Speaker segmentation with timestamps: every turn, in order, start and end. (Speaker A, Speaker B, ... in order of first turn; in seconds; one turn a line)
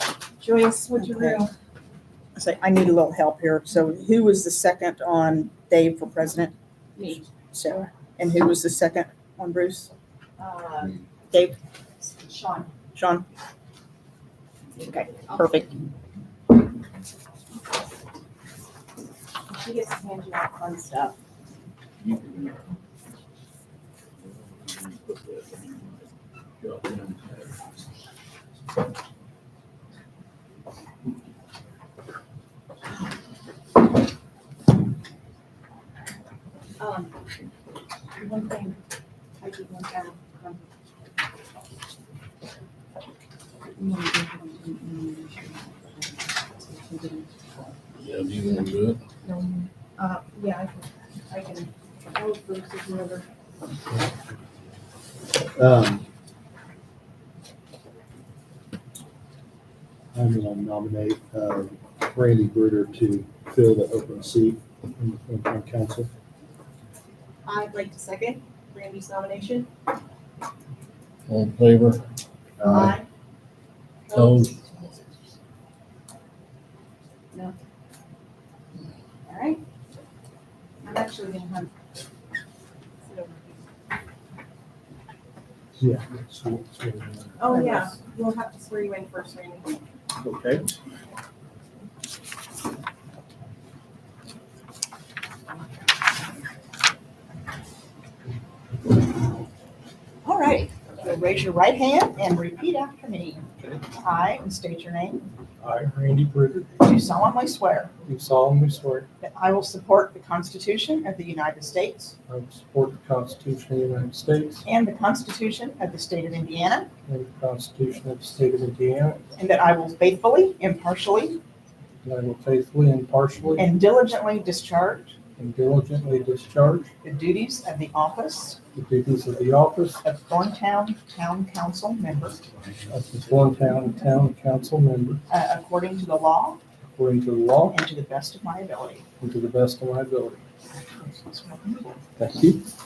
Speaker A: 0.4-1.5
Speaker B: 0.9-1.4
Speaker B: 2.4-6.5
Speaker A: 7.0-7.2
Speaker B: 7.5-9.9
Speaker A: 10.4-11.0
Speaker A: 12.0-12.7
Speaker B: 12.9-13.2
Speaker B: 14.8-15.7
Speaker A: 15.3-15.6
Speaker A: 19.5-21.1
Speaker C: 22.0-22.6
Speaker C: 24.2-26.0
Speaker C: 26.6-27.6
Speaker A: 36.8-37.1
Speaker A: 38.1-38.8
Speaker A: 39.4-40.7
Speaker A: 43.8-47.7
Speaker C: 48.0-49.0
Speaker A: 49.2-53.2
Speaker D: 55.5-56.0
Speaker D: 60.1-66.1
Speaker A: 67.4-69.7
Speaker C: 71.3-72.0
Speaker D: 72.6-72.9
Speaker A: 72.6-73.0
Speaker A: 74.1-74.8
Speaker C: 74.1-74.5
Speaker A: 79.2-79.6
Speaker A: 80.8-81.7
Speaker A: 83.0-83.6
Speaker D: 85.8-87.3
Speaker A: 87.4-89.8
Speaker B: 87.5-87.8
Speaker D: 90.2-90.7
Speaker B: 100.2-103.5
Speaker B: 104.0-105.3
Speaker E: 105.6-106.8
Speaker B: 106.8-107.9
Speaker E: 108.0-109.1
Speaker B: 109.2-112.2
Speaker E: 112.3-114.6
Speaker B: 114.6-116.9
Speaker E: 117.0-119.2
Speaker B: 119.3-121.4
Speaker E: 122.0-123.7
Speaker B: 123.6-125.2
Speaker E: 125.4-126.9
Speaker B: 127.0-128.6
Speaker E: 128.7-130.0
Speaker B: 130.0-132.4
Speaker E: 132.9-135.2
Speaker B: 135.3-136.6
Speaker E: 136.9-137.7
Speaker B: 137.7-139.0
Speaker E: 139.2-140.4
Speaker B: 140.8-142.0
Speaker E: 142.2-142.6